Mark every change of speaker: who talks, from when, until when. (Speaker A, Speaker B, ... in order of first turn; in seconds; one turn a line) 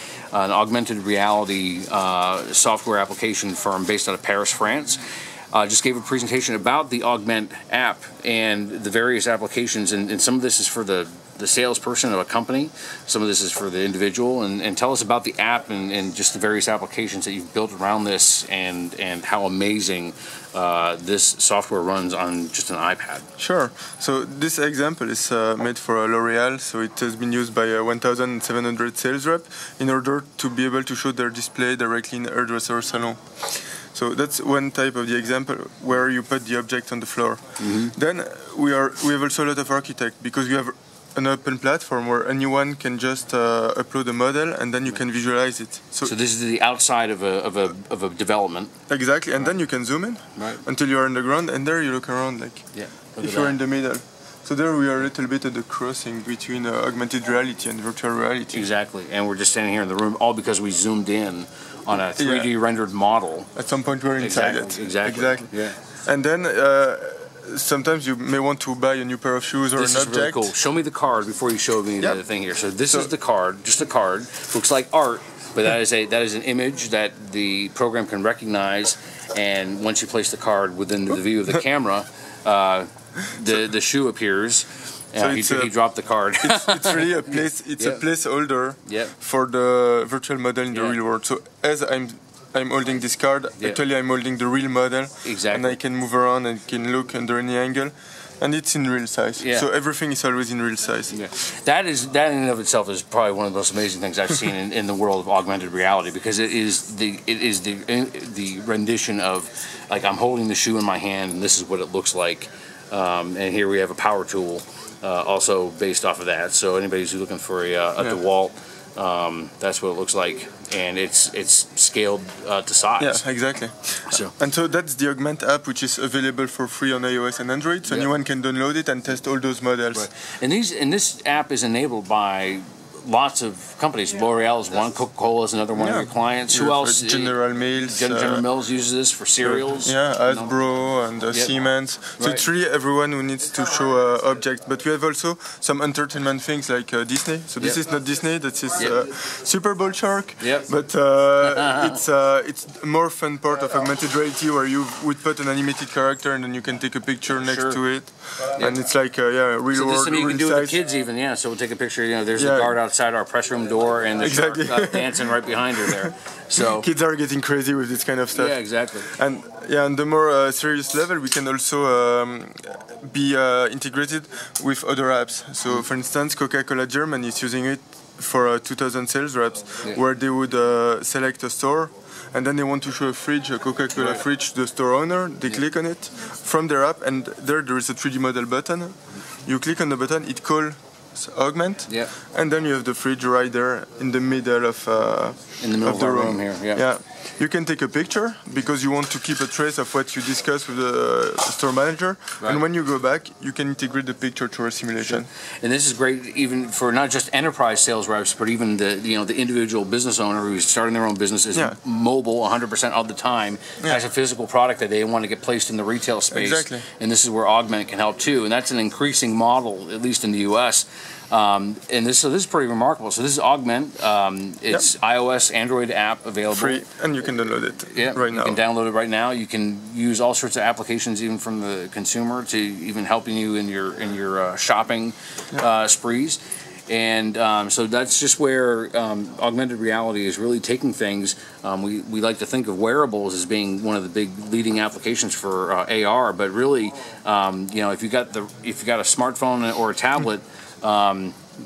Speaker A: 0.3-23.3
Speaker B: 23.4-46.1
Speaker A: 37.6-37.9
Speaker A: 46.0-48.7
Speaker B: 48.9-52.6
Speaker A: 52.7-53.6
Speaker B: 53.2-58.6
Speaker A: 58.5-63.5
Speaker B: 62.1-62.5
Speaker B: 63.5-70.5
Speaker A: 64.2-65.8
Speaker A: 69.7-88.0
Speaker B: 85.2-85.7
Speaker B: 86.4-101.1
Speaker A: 88.9-89.1
Speaker A: 95.2-95.8
Speaker A: 99.4-99.7
Speaker A: 101.1-123.2
Speaker B: 123.0-130.1
Speaker A: 124.1-124.3
Speaker A: 127.8-128.1
Speaker A: 129.9-140.5
Speaker B: 135.8-138.4
Speaker B: 139.4-160.8
Speaker A: 142.2-142.4
Speaker A: 150.4-150.7
Speaker A: 151.4-152.0
Speaker A: 157.3-157.8
Speaker A: 159.7-166.9
Speaker B: 162.4-162.8
Speaker B: 164.2-165.2
Speaker B: 165.8-188.9
Speaker A: 168.3-169.1
Speaker B: 189.4-205.2
Speaker A: 195.6-196.8
Speaker A: 205.1-226.8
Speaker B: 216.3-216.8
Speaker B: 226.5-228.6
Speaker A: 227.9-251.4